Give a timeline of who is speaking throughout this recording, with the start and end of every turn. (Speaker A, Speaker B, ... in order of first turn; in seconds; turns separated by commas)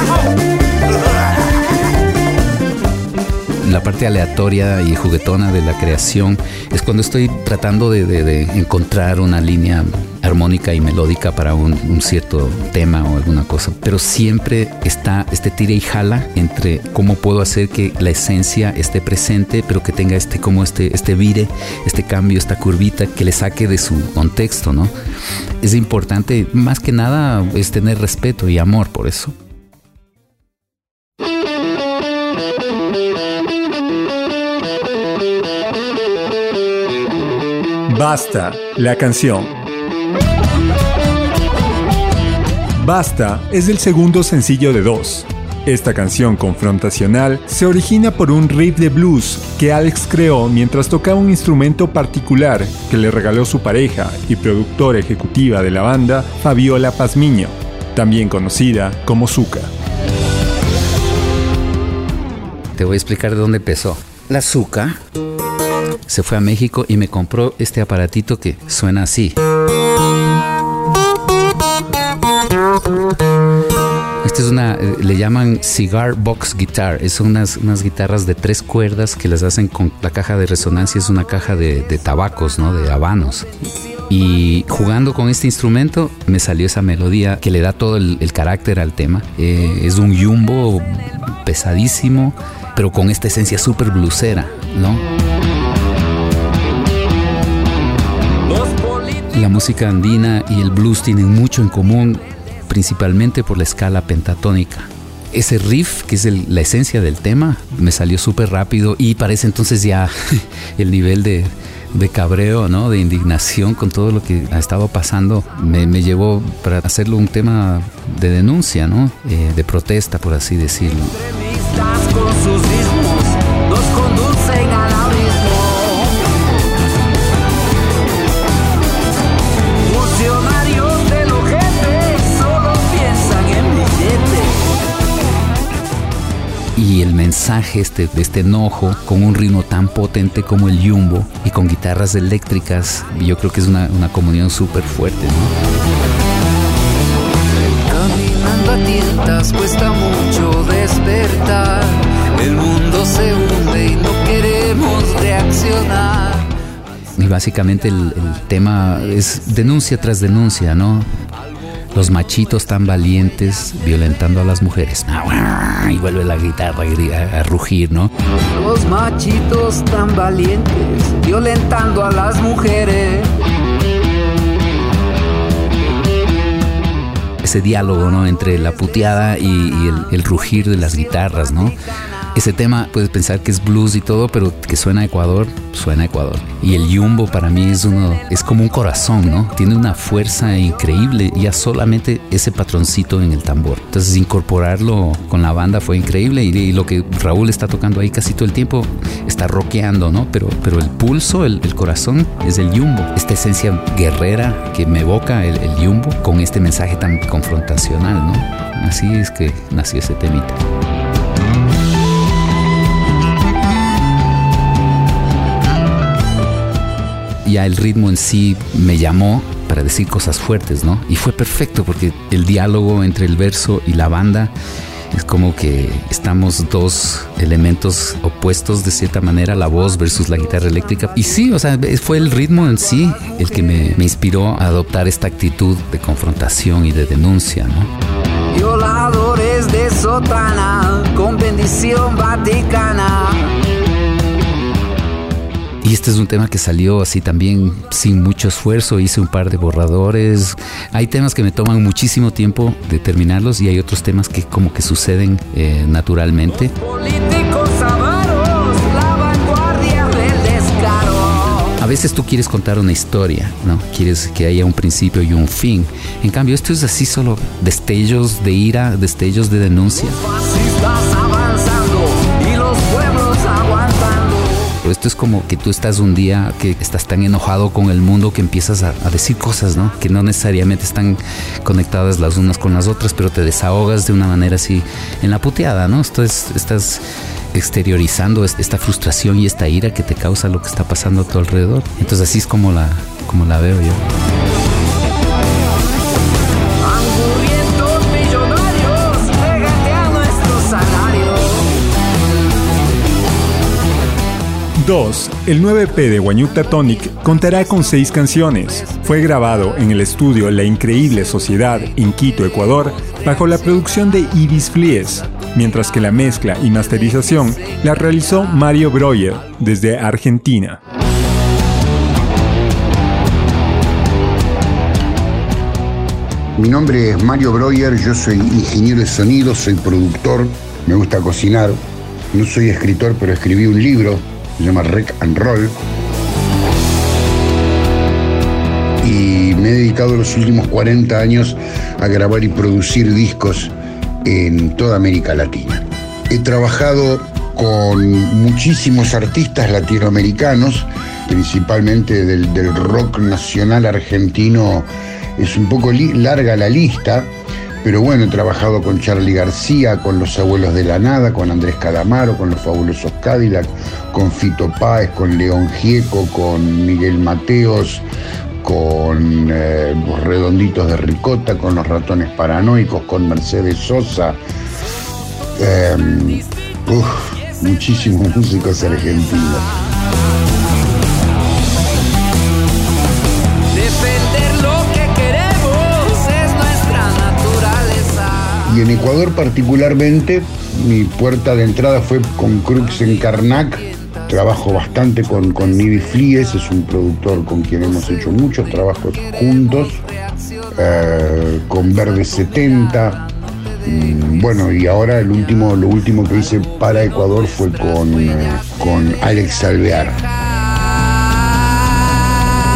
Speaker A: 3.6-24.9, Speaker A: 25.6-29.3, Speaker B: 37.9-39.5, Speaker B: 42.8-59.7, Speaker A: 62.7-65.0, Speaker A: 66.0-69.4, Speaker A: 74.2-83.5, Speaker A: 84.1-95.0, Speaker C: 98.5-99.2, Speaker A: 99.3-121.2, Speaker C: 121.2-126.3, Speaker C: 129.8-134.7, Speaker A: 136.8-145.5, Speaker C: 147.7-156.5, Speaker A: 157.2-161.1, Speaker A: 161.9-168.1, Speaker C: 168.5-173.3, Speaker A: 177.4-181.8, Speaker A: 182.3-210.6, Speaker A: 217.4-224.5, Speaker A: 225.1-237.9, Speaker C: 238.5-243.6, Speaker A: 245.8-256.7, Speaker C: 256.7-261.7, Speaker A: 261.7-270.2, Speaker C: 270.2-274.7, Speaker A: 274.8-294.0, Speaker C: 296.8-301.7, Speaker B: 304.8-320.8, Speaker D: 326.6-331.8, Speaker D: 332.3-335.8, Speaker D: 339.0-357.3, Speaker D: 357.8-368.1, Speaker D: 368.6-374.4, Speaker D: 375.6-379.8, Speaker C: 383.7-388.6, Speaker D: 388.6-400.0, Speaker D: 400.8-403.3, Speaker D: 403.9-410.2